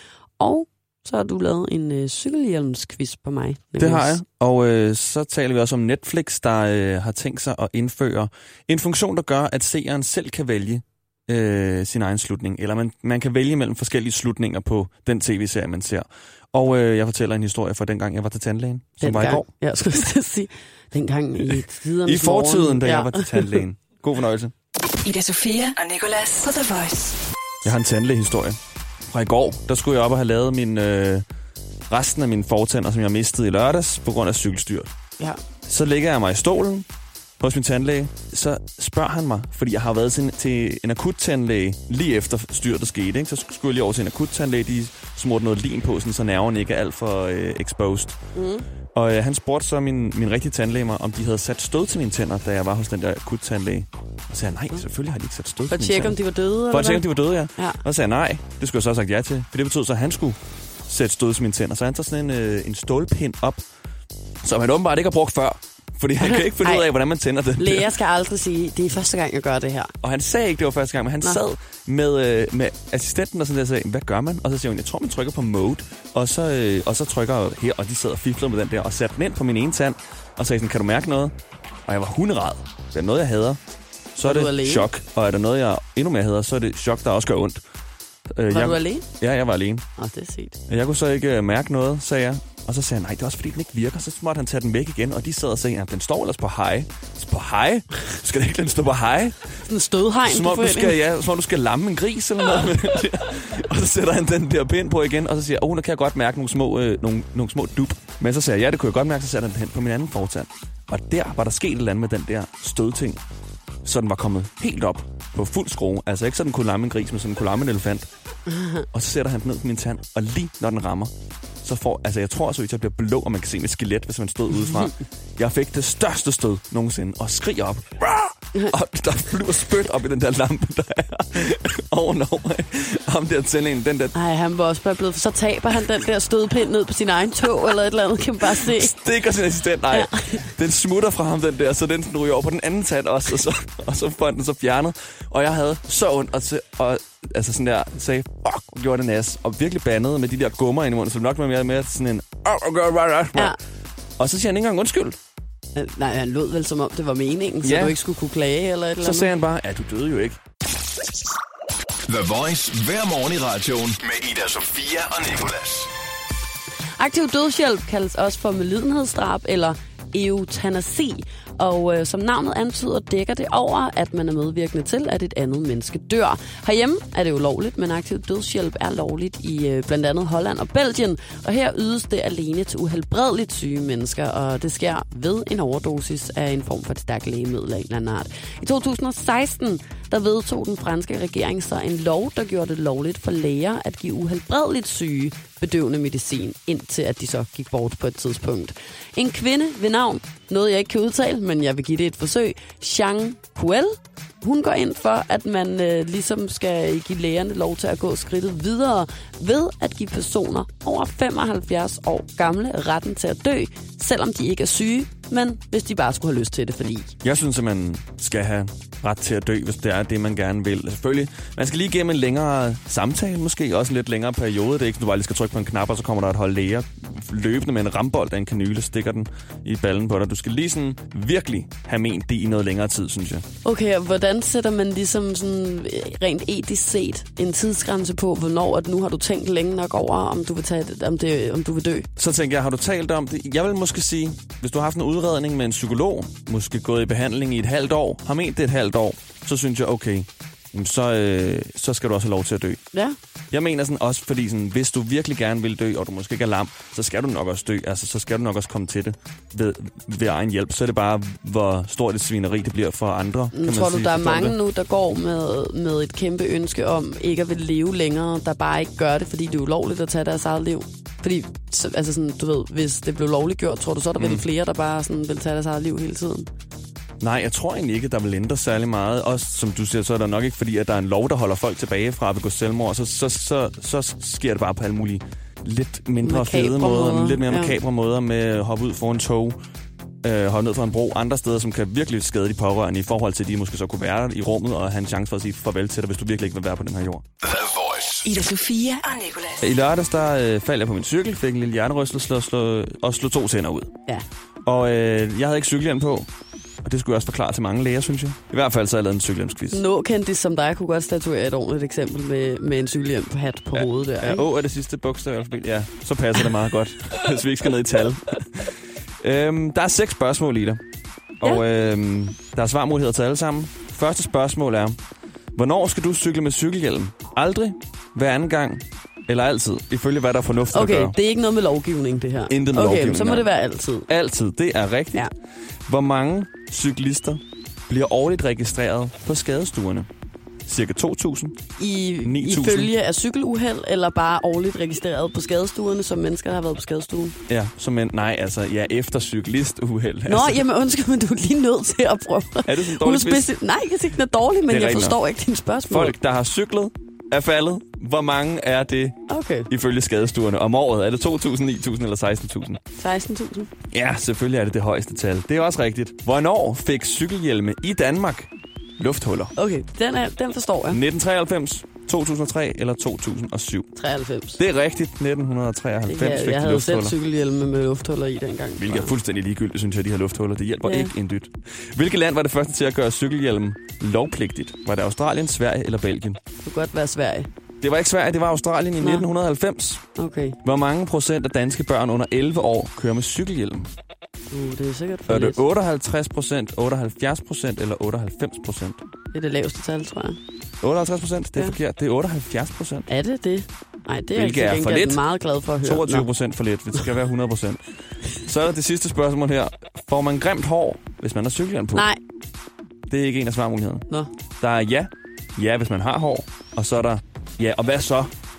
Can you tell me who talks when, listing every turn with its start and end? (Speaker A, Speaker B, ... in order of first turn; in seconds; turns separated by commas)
Speaker A: 0.4-4.2, Speaker B: 3.8-19.5, Speaker A: 19.0-23.6, Speaker B: 22.0-24.5, Speaker C: 25.0-27.2, Speaker B: 27.6-28.6, Speaker B: 29.1-31.2, Speaker B: 31.9-34.9, Speaker B: 35.7-36.9, Speaker B: 37.4-48.2, Speaker A: 48.4-48.7, Speaker B: 49.0-60.4, Speaker A: 55.7-57.8, Speaker B: 60.9-63.6, Speaker B: 64.4-67.9, Speaker A: 66.2-66.9, Speaker A: 67.6-69.9, Speaker B: 70.0-81.3, Speaker B: 81.9-83.6, Speaker B: 84.2-87.6, Speaker A: 84.2-84.9, Speaker B: 88.4-89.8, Speaker A: 88.5-89.1, Speaker A: 90.0-90.6, Speaker B: 90.7-99.6, Speaker A: 99.6-101.0, Speaker B: 100.3-113.2, Speaker B: 113.8-118.1, Speaker B: 118.8-121.1, Speaker B: 121.6-134.1, Speaker A: 134.1-139.0, Speaker B: 138.4-153.6, Speaker A: 139.9-140.5, Speaker B: 154.2-155.2, Speaker A: 155.7-159.3, Speaker B: 157.6-158.0, Speaker B: 159.0-160.4, Speaker D: 162.1-165.9, Speaker A: 167.0-217.2, Speaker B: 217.2-233.4, Speaker A: 233.6-242.1, Speaker B: 242.2-252.8, Speaker B: 253.5-264.6, Speaker A: 263.5-276.5, Speaker B: 274.2-274.4, Speaker B: 277.2-289.6, Speaker A: 286.2-287.8, Speaker B: 290.2-297.2, Speaker D: 297.4-298.3, Speaker C: 298.2-299.7, Speaker B: 299.6-303.9, Speaker B: 304.7-306.3, Speaker B: 306.8-309.8, Speaker A: 309.7-314.4, Speaker B: 313.7-320.8, Speaker B: 321.4-325.0, Speaker B: 325.6-331.2, Speaker A: 330.7-334.1, Speaker B: 332.5-333.5, Speaker B: 334.1-335.3, Speaker B: 335.9-340.1, Speaker B: 340.7-341.6, Speaker A: 341.8-347.4, Speaker B: 342.2-342.9, Speaker B: 347.5-350.7, Speaker A: 350.3-356.1, Speaker B: 352.6-353.5, Speaker B: 354.7-355.2, Speaker B: 355.9-362.8, Speaker A: 359.3-359.7, Speaker A: 363.0-363.7, Speaker B: 363.9-369.5, Speaker A: 369.6-371.0, Speaker B: 370.9-373.9, Speaker A: 373.9-374.6, Speaker B: 374.6-377.1, Speaker A: 376.1-379.1, Speaker B: 378.8-386.4, Speaker A: 380.8-381.1, Speaker A: 386.6-387.5, Speaker B: 387.8-390.0, Speaker A: 389.0-389.3, Speaker A: 390.2-390.6, Speaker B: 390.6-393.9, Speaker A: 394.5-395.6, Speaker B: 395.3-399.0, Speaker A: 399.3-400.4, Speaker B: 400.8-403.1, Speaker A: 403.1-406.3, Speaker B: 404.4-405.2, Speaker B: 405.8-412.1, Speaker A: 411.9-412.2, Speaker B: 413.1-414.1, Speaker B: 414.6-418.3